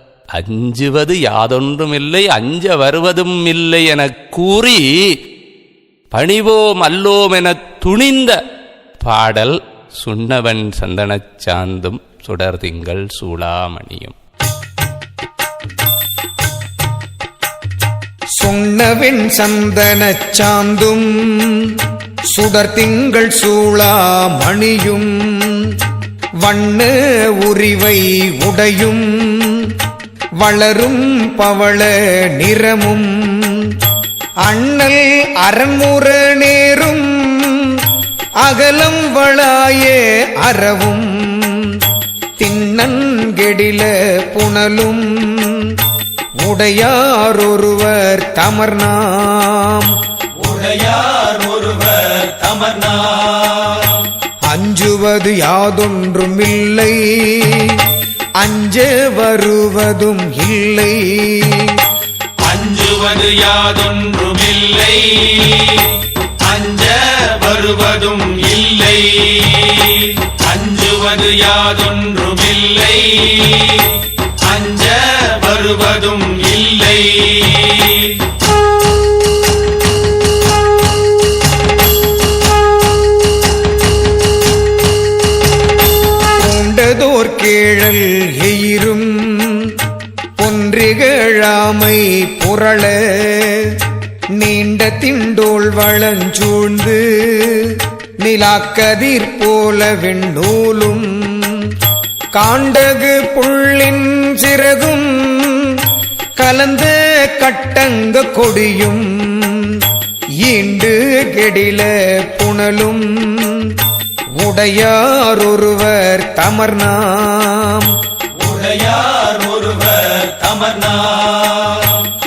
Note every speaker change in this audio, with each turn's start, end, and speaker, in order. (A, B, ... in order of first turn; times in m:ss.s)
0:00.3-0:05.1 A
0:06.1-0:08.4 A
0:09.0-0:14.2 A
0:18.4-0:25.8 B
0:26.4-0:29.8 B
0:30.4-0:33.8 B
0:34.4-0:37.9 B
0:38.4-0:41.8 B
0:42.4-0:45.8 B
0:46.4-0:49.9 B
0:50.4-0:54.1 C
0:54.5-0:57.9 B
0:58.4-1:01.8 B
1:02.4-1:18.2 C
1:26.4-1:29.8 B
1:30.4-1:33.8 B
1:34.4-1:41.8 B
1:42.4-1:45.9 B
1:46.4-1:49.9 B
1:50.4-1:53.8 B
1:54.4-1:57.9 B
1:58.4-2:02.1 C